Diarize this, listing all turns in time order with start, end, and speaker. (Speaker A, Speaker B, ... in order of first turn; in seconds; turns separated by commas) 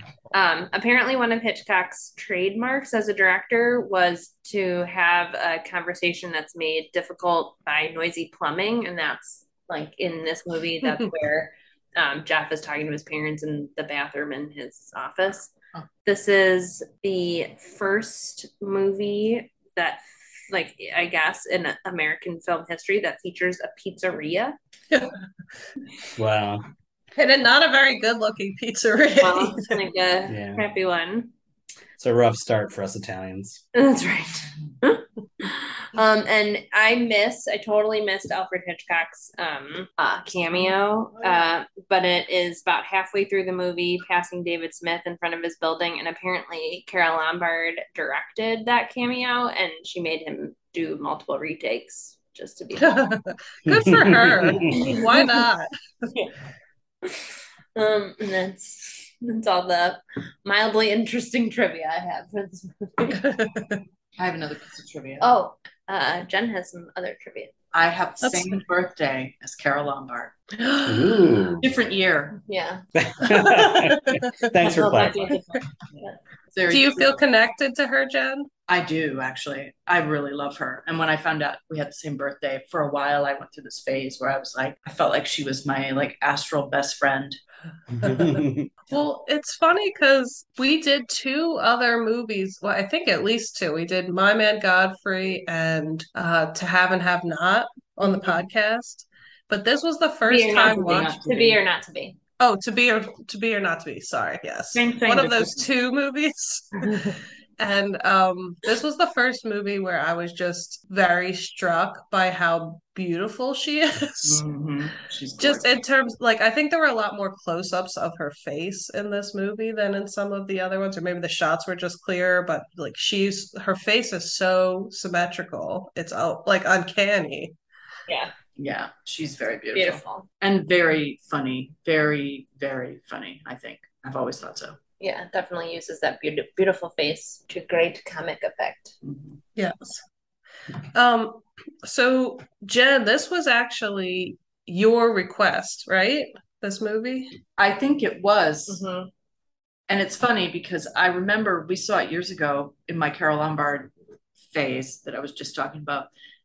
Speaker A: 0.3-15.5, Speaker A: 16.1-24.6, Speaker B: 26.1-26.6, Speaker C: 27.2-29.8, Speaker A: 29.2-31.3, Speaker B: 30.3-30.6, Speaker B: 32.0-33.6, Speaker A: 33.7-52.9, Speaker C: 52.8-55.7, Speaker B: 53.7-54.9, Speaker A: 57.8-63.2, Speaker C: 63.2-63.8, Speaker D: 64.2-65.3, Speaker A: 65.2-67.5, Speaker D: 67.7-70.4, Speaker C: 68.2-68.6, Speaker C: 70.6-71.1, Speaker B: 70.8-71.7, Speaker D: 71.6-72.4, Speaker A: 72.5-72.8, Speaker B: 73.0-75.4, Speaker C: 73.3-74.2, Speaker A: 74.6-76.2, Speaker D: 76.5-77.2, Speaker C: 76.7-78.5, Speaker D: 78.7-87.4, Speaker B: 88.0-88.7, Speaker C: 88.0-101.2, Speaker A: 98.0-98.5, Speaker A: 100.2-102.2, Speaker D: 100.5-101.6, Speaker C: 102.4-106.9, Speaker D: 104.7-105.7, Speaker A: 106.9-107.1, Speaker C: 107.6-114.4, Speaker D: 114.2-115.8, Speaker C: 115.4-127.5, Speaker D: 128.6-134.8, Speaker A: 129.7-130.3, Speaker A: 135.0-138.9, Speaker D: 139.0-139.4, Speaker C: 139.6-140.0, Speaker C: 140.9-147.4, Speaker D: 147.6-148.8, Speaker A: 148.7-149.1, Speaker D: 149.9-153.9, Speaker D: 154.4-156.1